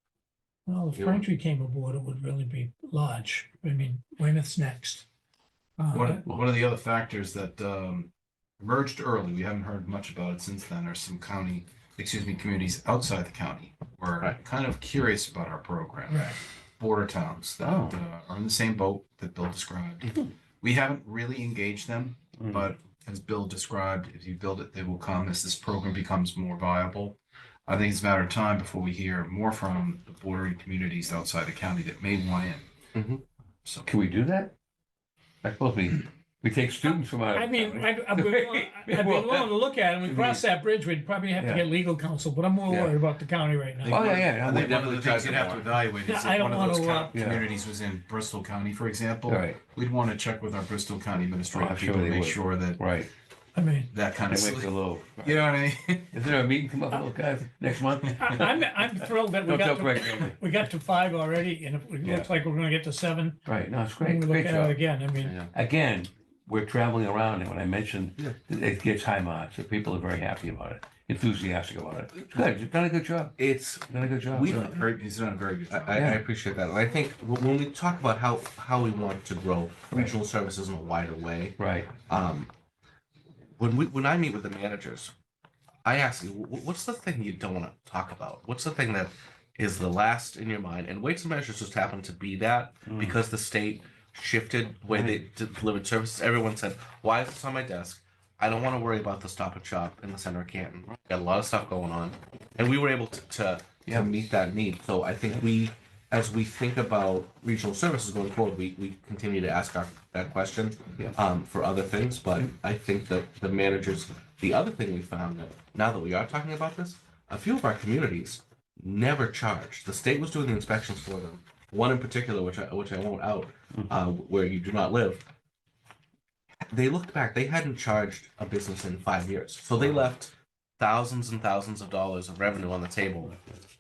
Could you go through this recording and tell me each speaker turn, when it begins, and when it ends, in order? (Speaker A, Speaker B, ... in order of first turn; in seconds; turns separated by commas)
Speaker A: 0.7-5.0, Speaker B: 0.9-1.2, Speaker A: 5.8-6.2, Speaker C: 5.9-32.7, Speaker D: 6.2-6.5, Speaker A: 16.1-16.4, Speaker D: 17.6-18.0, Speaker D: 22.4-22.7, Speaker B: 32.9-33.2, Speaker D: 33.8-34.5, Speaker D: 35.4-39.5, Speaker A: 36.8-44.0, Speaker D: 40.0-40.4, Speaker D: 41.4-41.6, Speaker D: 42.7-43.0, Speaker C: 43.8-52.8, Speaker D: 43.9-44.8, Speaker B: 44.5-45.7, Speaker A: 46.0-47.1, Speaker D: 47.1-47.4, Speaker D: 49.2-49.6, Speaker D: 51.5-53.1, Speaker A: 53.5-53.9, Speaker C: 53.9-56.1, Speaker D: 54.3-55.5, Speaker D: 56.1-60.4, Speaker A: 58.1-63.4, Speaker D: 63.5-64.8, Speaker A: 64.0-65.3, Speaker B: 65.2-65.5, Speaker D: 65.5-73.3, Speaker B: 73.4-74.7, Speaker D: 73.9-74.8, Speaker C: 74.5-76.1, Speaker B: 75.7-82.5, Speaker D: 75.9-76.2, Speaker D: 81.6-82.0, Speaker B: 83.6-85.1, Speaker B: 85.8-125.2, Speaker D: 92.9-93.2, Speaker D: 94.8-95.2, Speaker D: 103.8-104.1, Speaker B: 126.7-133.3, Speaker D: 129.8-130.1